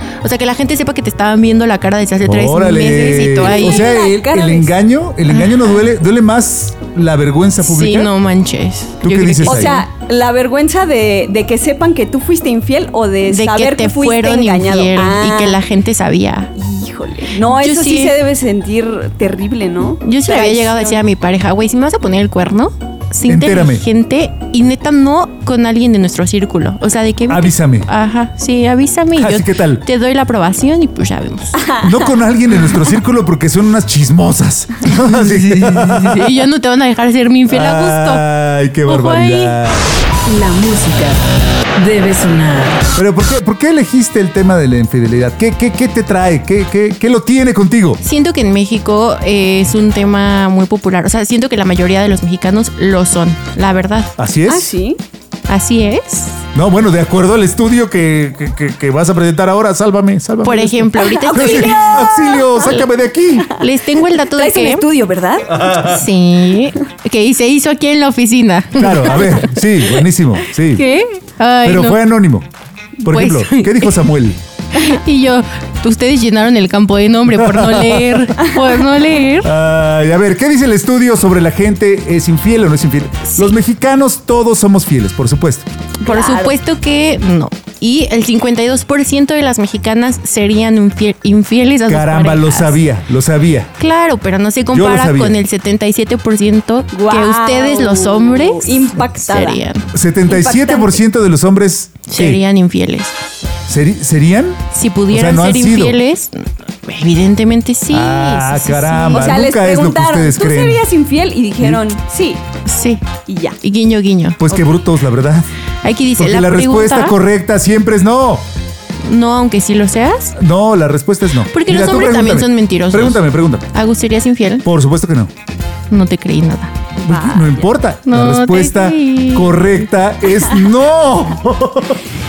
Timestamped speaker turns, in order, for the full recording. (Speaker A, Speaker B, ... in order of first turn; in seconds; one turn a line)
Speaker A: 0.2-4.0
Speaker B: 2.2-8.1
Speaker C: 2.9-4.7
Speaker A: 5.2-5.8
Speaker A: 7.6-9.8
Speaker B: 9.0-9.8
Speaker C: 9.4-15.6
Speaker A: 13.3-16.5
Speaker C: 16.6-21.0
Speaker A: 17.5-18.1
Speaker A: 20.0-31.7
Speaker B: 23.3-23.9
Speaker B: 27.3-27.9
Speaker B: 29.1-29.8
Speaker C: 31.6-31.9
Speaker B: 31.8-36.3
Speaker A: 35.8-38.2
Speaker B: 37.5-39.9
Speaker A: 38.9-39.6
Speaker D: 40.2-41.2
Speaker D: 41.8-42.8
Speaker B: 42.9-48.0
Speaker A: 48.0-54.1
Speaker B: 54.2-54.7
Speaker C: 54.5-55.0
Speaker A: 55.5-56.4
Speaker B: 56.5-63.5
Speaker A: 60.4-61.8
Speaker C: 61.0-62.8
Speaker A: 63.5-64.9
Speaker C: 64.2-65.5
Speaker B: 65.5-66.0
Speaker A: 65.7-69.5
Speaker B: 68.8-70.8
Speaker A: 70.7-72.0
Speaker B: 71.6-72.5
Speaker A: 73.0-74.0
Speaker B: 73.0-74.4
Speaker A: 74.7-79.5
Speaker B: 77.3-78.4
Speaker B: 79.4-85.7
Speaker A: 83.3-83.5
Speaker A: 86.0-92.8
Speaker C: 86.0-86.6
Speaker B: 91.9-93.7
Speaker A: 93.8-99.9
Speaker B: 94.7-95.4
Speaker C: 96.9-99.6
Speaker B: 99.9-102.4
Speaker C: 100.3-101.0
Speaker A: 102.1-103.1
Speaker B: 103.7-106.0
Speaker A: 104.7-109.4
Speaker B: 107.9-110.8
Speaker C: 109.1-112.4
Speaker A: 112.6-113.0
Speaker C: 113.2-113.6
Speaker A: 113.6-114.6
Speaker B: 114.4-115.5
Speaker A: 115.8-117.2
Speaker B: 116.2-118.4
Speaker A: 119.0-120.3
Speaker B: 120.4-123.7
Speaker A: 121.5-124.7
Speaker B: 124.6-125.3
Speaker A: 125.9-126.8
Speaker B: 127.0-132.0
Speaker C: 127.0-127.6
Speaker A: 128.1-129.9